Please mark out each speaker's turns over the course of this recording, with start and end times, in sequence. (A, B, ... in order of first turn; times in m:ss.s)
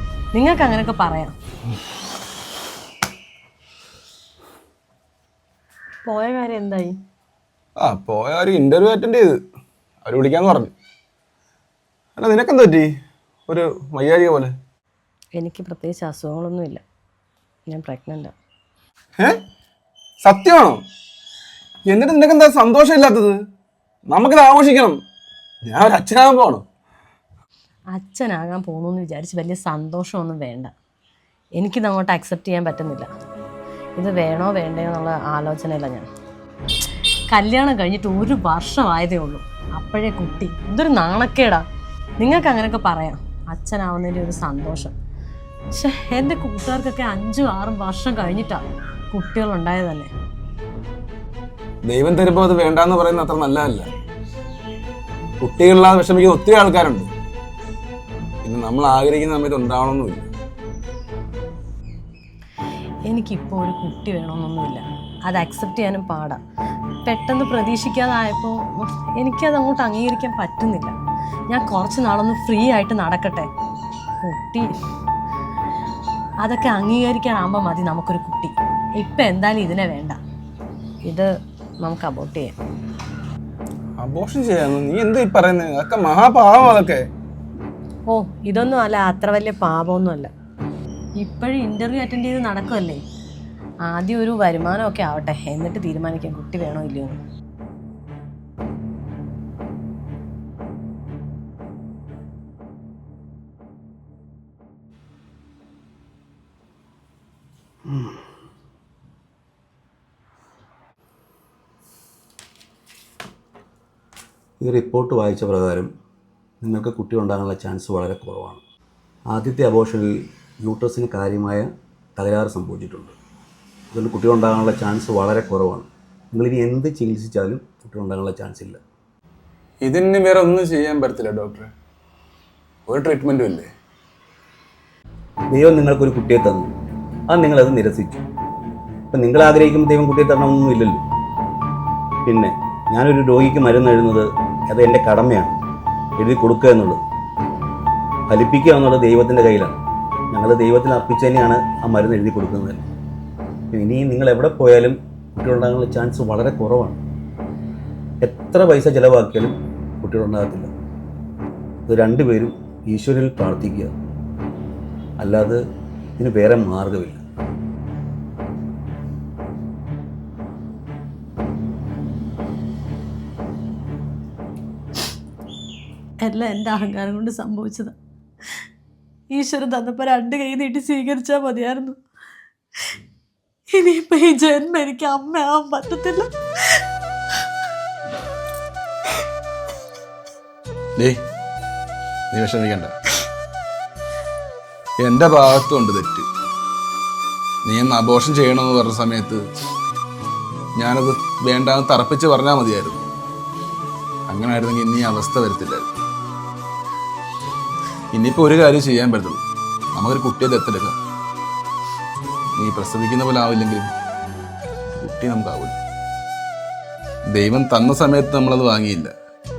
0:00.3-0:01.3 A
0:06.0-0:07.0 A
0:07.8-0:09.4 B
0:10.0-0:10.7 B
0:12.2-0:12.9 B
0:13.5-0:14.5 B
0:15.4-0:16.8 A
0:17.7-0:18.3 A
0:20.2-0:20.8 B
0:21.8-0:23.4 B
0:24.1-0:25.0 B
0:25.6-0:26.6 B
0:27.9-0:30.7 A
0:31.6-0:33.1 A
0:34.0-0:36.1 A
0:37.3-0:41.6 A
0:42.2-0:44.9 A
0:45.7-0:50.1 A
0:51.9-0:53.9 B
0:55.4-0:57.1 B
0:58.4-1:00.3 B
1:03.1-1:06.4 A
1:07.0-1:10.9 A
1:11.5-1:13.5 A
1:14.2-1:14.7 A
1:16.4-1:20.2 A
1:21.8-1:22.5 A
1:24.0-1:27.1 B
1:28.1-1:30.3 A
1:31.2-1:33.0 A
1:33.8-1:37.2 A
1:54.6-1:55.9 C
1:56.6-1:58.6 C
1:59.3-2:03.1 C
2:03.9-2:08.8 C
2:09.8-2:11.7 B
2:12.9-2:13.7 B
2:15.5-2:16.7 C
2:17.3-2:18.2 C
2:19.1-2:21.0 C
2:22.2-2:25.6 C
2:26.2-2:27.0 C
2:28.3-2:29.8 C
2:30.3-2:32.8 C
2:33.7-2:37.0 C
2:38.2-2:40.7 C
2:41.9-2:43.9 C
2:45.2-2:45.6 C
2:46.2-2:47.2 C
2:56.2-2:58.0 A
2:59.3-3:02.0 A
3:03.7-3:06.8 A
3:12.3-3:12.9 B
3:15.0-3:16.3 B
3:17.6-3:19.4 B
3:20.8-3:23.0 B
3:24.3-3:25.9 B
3:28.1-3:29.4 B
3:30.0-3:31.0 B
3:32.6-3:33.9 B
3:35.0-3:35.8 B
3:37.3-3:39.1 B